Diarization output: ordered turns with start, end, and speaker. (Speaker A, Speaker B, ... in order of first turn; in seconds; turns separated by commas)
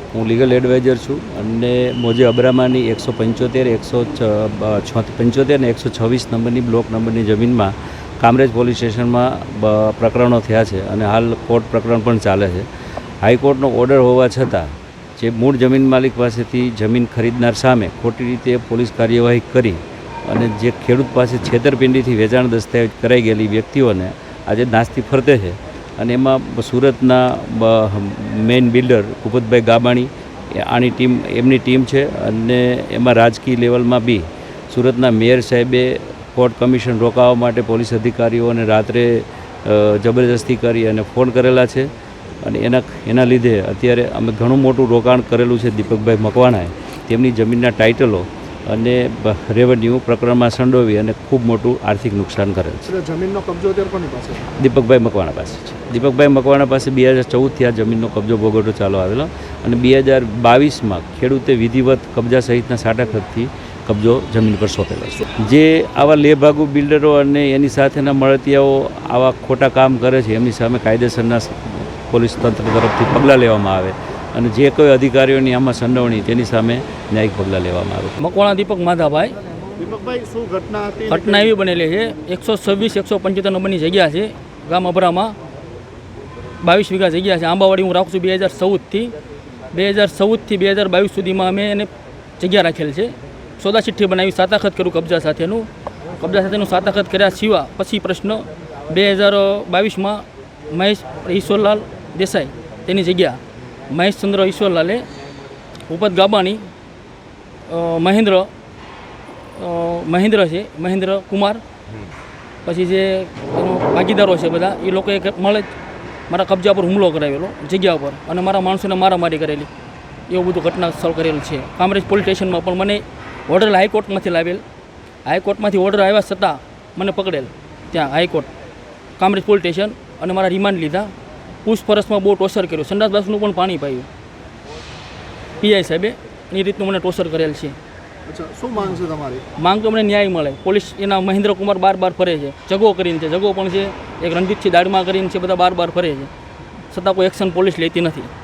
Speaker A: 0.1-12.7, Speaker A: 13.2-41.9, Speaker A: 42.4-52.9, Speaker B: 52.9-54.5, Speaker A: 54.6-78.2, Speaker C: 78.2-79.4, Speaker B: 79.8-81.5, Speaker C: 81.1-85.3, Speaker C: 86.6-89.1, Speaker C: 89.7-95.7, Speaker C: 96.2-103.4, Speaker C: 103.9-105.0, Speaker C: 105.9-106.6, Speaker C: 107.7-108.5, Speaker C: 109.5-111.6, Speaker C: 112.6-115.7, Speaker C: 116.3-119.7, Speaker C: 120.3-124.6, Speaker C: 125.2-128.5, Speaker C: 129.2-131.1, Speaker C: 131.6-134.1, Speaker C: 135.6-137.8, Speaker B: 138.3-139.4, Speaker C: 139.6-146.3, Speaker C: 146.9-148.3